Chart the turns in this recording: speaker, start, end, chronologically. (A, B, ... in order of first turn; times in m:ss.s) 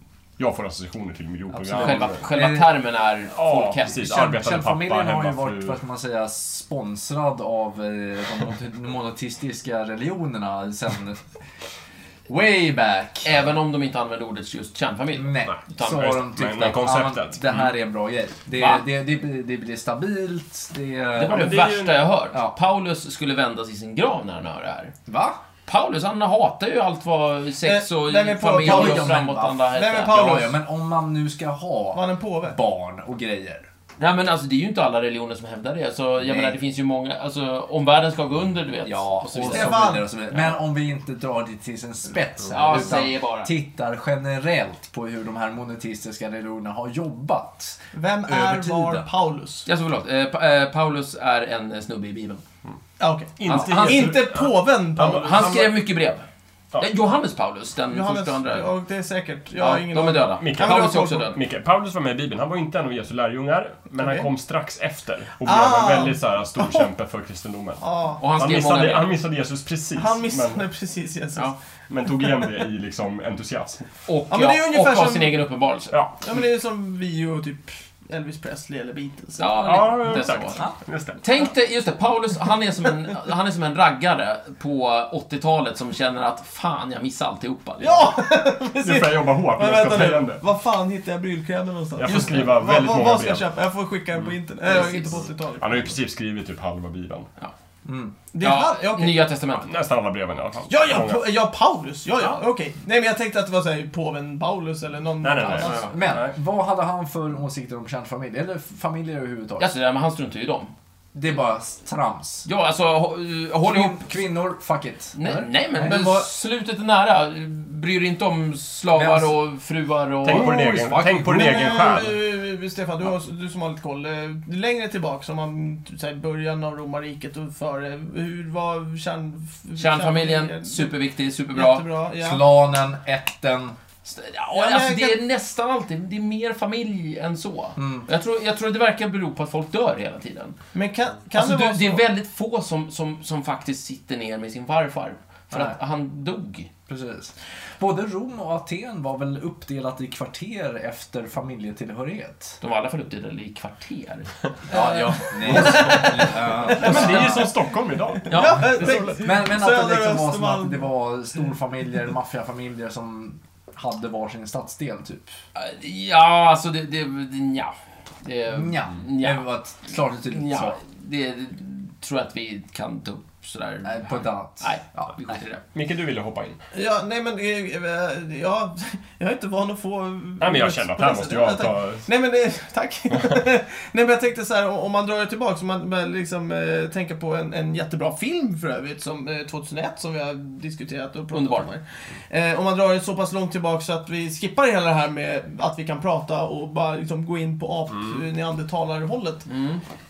0:00.4-0:02.2 A
0:01.5-0:02.7 B
0:01.8-0:04.1 C
0:03.3-0:05.8 A
0:04.0-0:11.3 B
0:12.3-0:13.3 B
0:13.2-0:16.1 C
0:15.2-0:21.6 B
0:15.5-0:17.7 A
0:18.6-0:18.8 C
0:21.2-0:24.9 C
0:21.2-0:22.0 A
0:25.0-0:25.4 B
0:25.7-0:30.4 C
0:27.6-0:30.6 D
0:28.5-0:33.7 B
0:31.9-0:32.6 D
0:34.0-0:40.5 C
0:36.2-0:36.5 B
0:38.8-0:49.0 B
0:39.4-0:40.1 D
0:42.5-0:43.5 C
0:47.9-0:49.7 D
0:49.6-0:52.4 C
0:53.0-0:55.7 D
0:53.4-0:55.7 A
0:53.5-0:54.2 C
0:55.0-0:56.2 C
0:56.8-0:58.7 C
0:57.9-1:01.3 D
0:59.6-1:01.4 C
1:00.4-1:10.6 A
1:04.0-1:04.3 D
1:05.4-1:06.8 D
1:07.8-1:08.2 D
1:08.2-1:09.1 C
1:10.0-1:11.5 D
1:11.9-1:13.9 A
1:14.1-1:16.0 C
1:14.3-1:15.4 D
1:15.9-1:16.2 A
1:16.2-1:19.5 D
1:19.4-1:20.6 C
1:19.6-1:21.2 A
1:21.2-1:28.1 C
1:27.8-1:35.9 D
1:28.8-1:30.4 A
1:32.0-1:33.5 A
1:34.6-1:35.3 C
1:35.6-1:37.3 A
1:37.8-1:38.2 B
1:38.3-1:39.3 D
1:38.4-1:39.7 C
1:39.5-1:41.3 A
1:40.7-1:45.9 D
1:45.2-1:46.3 A
1:45.6-1:45.9 C
1:45.6-1:49.7 B
1:49.6-1:50.7 C
1:51.1-1:52.5 B
1:52.4-1:54.0 C
1:53.6-1:56.2 B
1:55.1-2:00.5 C
1:58.9-1:59.4 B
2:00.2-2:02.2 A
2:00.3-2:02.1 B
2:01.2-2:10.9 D
2:09.8-2:11.8 C
2:11.5-2:12.4 D
2:12.2-2:13.8 B
2:14.0-2:20.6 C
2:14.5-2:15.2 D
2:17.8-2:18.0 B
2:20.7-2:22.0 D
2:21.3-2:26.7 C
2:25.5-2:25.8 B
2:26.9-2:32.6 B
2:32.6-2:36.2 C
2:34.7-2:37.4 B
2:35.4-2:37.4 D
2:36.7-2:39.2 A
2:36.8-2:37.4 C
2:38.2-2:40.9 D
2:38.3-2:39.0 C
2:39.2-2:45.3 B
2:45.5-2:49.4 C
2:48.5-2:50.8 B
2:50.3-2:55.6 C
2:53.8-2:55.3 B
2:55.7-2:56.6 A
2:56.7-3:19.5 D
3:00.4-3:02.1 A
3:11.3-3:11.7 C
3:17.9-3:18.2 A
3:19.5-3:19.8 C